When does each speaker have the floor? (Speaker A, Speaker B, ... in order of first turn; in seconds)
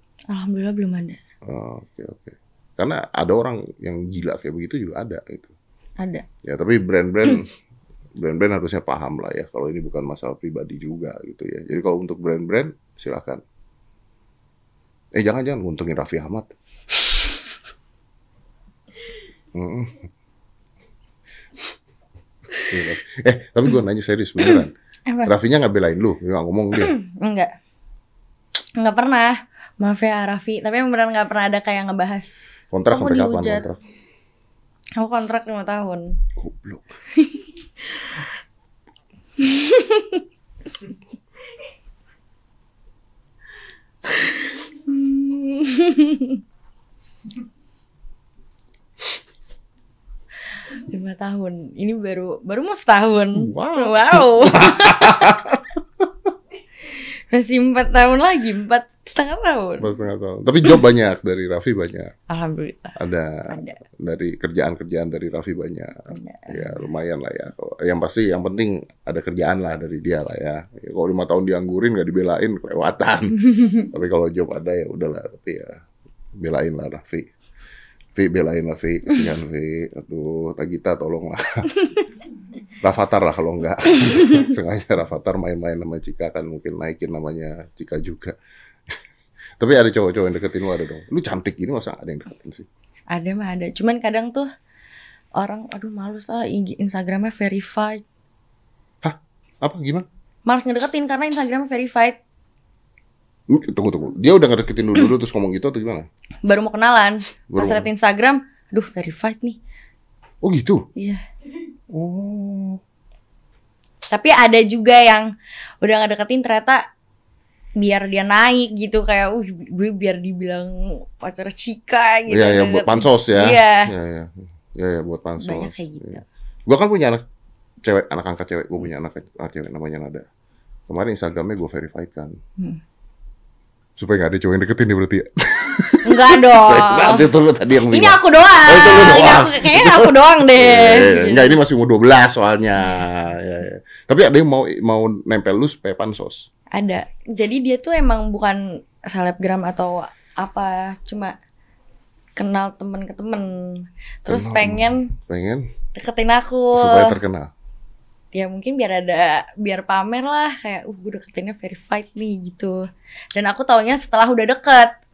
Speaker A: 0.3-1.2, 6.0-6.3, 24.4-25.3, 26.8-27.5, 28.8-32.3, 32.9-33.6, 35.0-36.2, 37.1-37.5, 39.4-40.2, 44.1-46.4, 50.8-55.4, 56.9-59.9, 62.3-63.0, 63.5-63.8, 66.1-66.8, 93.1-94.5, 95.4-98.0, 100.5-102.2, 106.4-109.6, 111.0-111.2, 114.1-116.8, 117.8-123.9, 125.4-126.2, 136.0-137.3, 137.9-141.6, 146.7-151.4, 152.4-155.1, 155.9-157.2, 158.3-164.9
Speaker B: 1.5-5.5, 6.4-7.5, 8.2-13.4, 15.1-16.5, 19.5-20.0, 22.7-24.7, 25.2-26.9, 32.7-33.8, 36.4-36.8, 53.4-55.7, 59.8-62.1, 63.0-75.8, 76.4-77.3, 78.2-81.8, 82.8-88.3, 89.6-92.7, 99.0-100.1, 103.5-106.1, 107.5-107.9, 110.4-110.8, 111.9-112.8, 122.3-127.2, 127.8-130.2, 130.9-132.3, 134.0-146.5, 154.3-155.7, 156.7-157.5